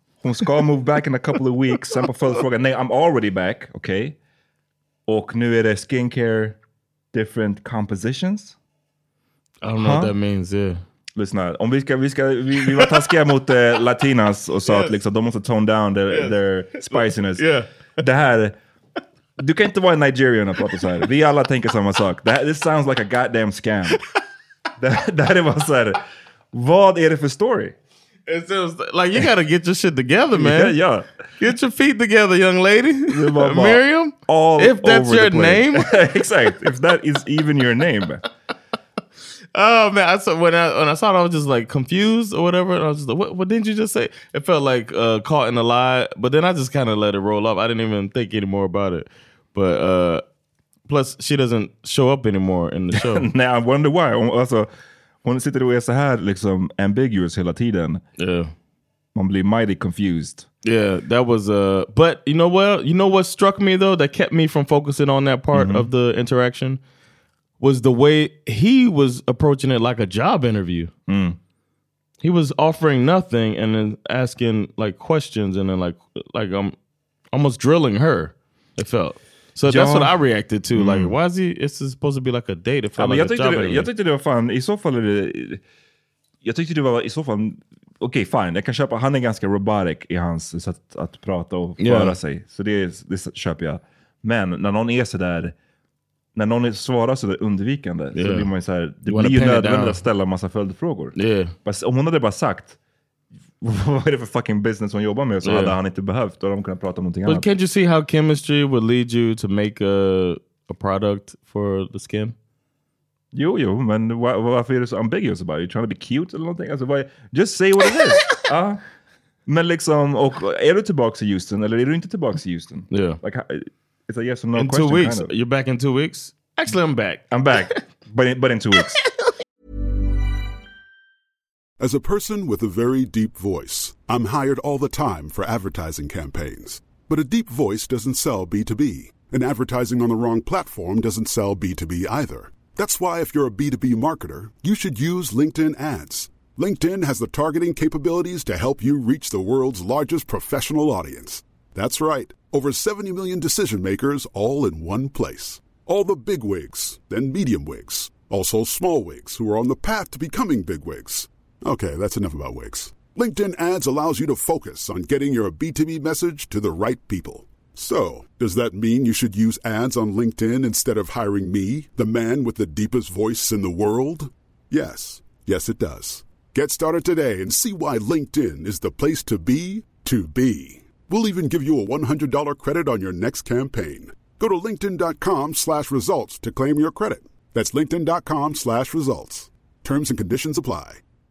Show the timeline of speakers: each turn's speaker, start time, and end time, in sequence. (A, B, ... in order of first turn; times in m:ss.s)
0:00.2-0:04.2 A
0:05.1-0:06.6 A
0:07.1-0:08.6 A
0:09.6-0:10.8 B
0:09.8-0:10.2 A
0:11.2-0:18.6 A
0:12.7-0:13.1 B
0:14.6-0:15.0 B
0:16.1-0:17.7 B
0:19.4-0:24.0 A
0:24.8-0:26.0 A
0:26.5-0:27.8 A
0:28.3-0:30.8 B
0:30.3-0:31.1 A
0:31.4-0:35.9 B
0:33.1-0:38.2 A
0:39.6-0:50.2 B
0:50.9-0:53.3 B
0:52.9-0:54.7 A
0:55.2-0:58.0 A
0:58.2-0:58.5 B
0:59.2-1:00.5 A
1:00.6-1:06.8 B
1:05.5-1:05.9 A
1:07.6-1:10.9 B
1:11.1-1:11.4 A
1:12.2-1:16.8 B
1:17.3-1:23.9 B
1:19.6-1:20.1 A
1:20.7-1:21.2 A
1:23.0-1:25.6 A
1:26.4-1:35.6 A
1:31.8-1:32.2 B
1:36.4-1:42.8 A
1:38.2-1:38.5 B
1:39.1-1:40.0 B
1:41.2-1:41.5 B
1:43.6-1:47.5 A
1:45.4-1:45.8 B
1:47.3-1:52.4 B
1:53.3-1:58.8 A
1:59.5-2:05.3 A
2:02.9-2:03.2 B
2:04.6-2:07.8 B
2:07.3-2:09.0 A
2:11.8-3:11.0 C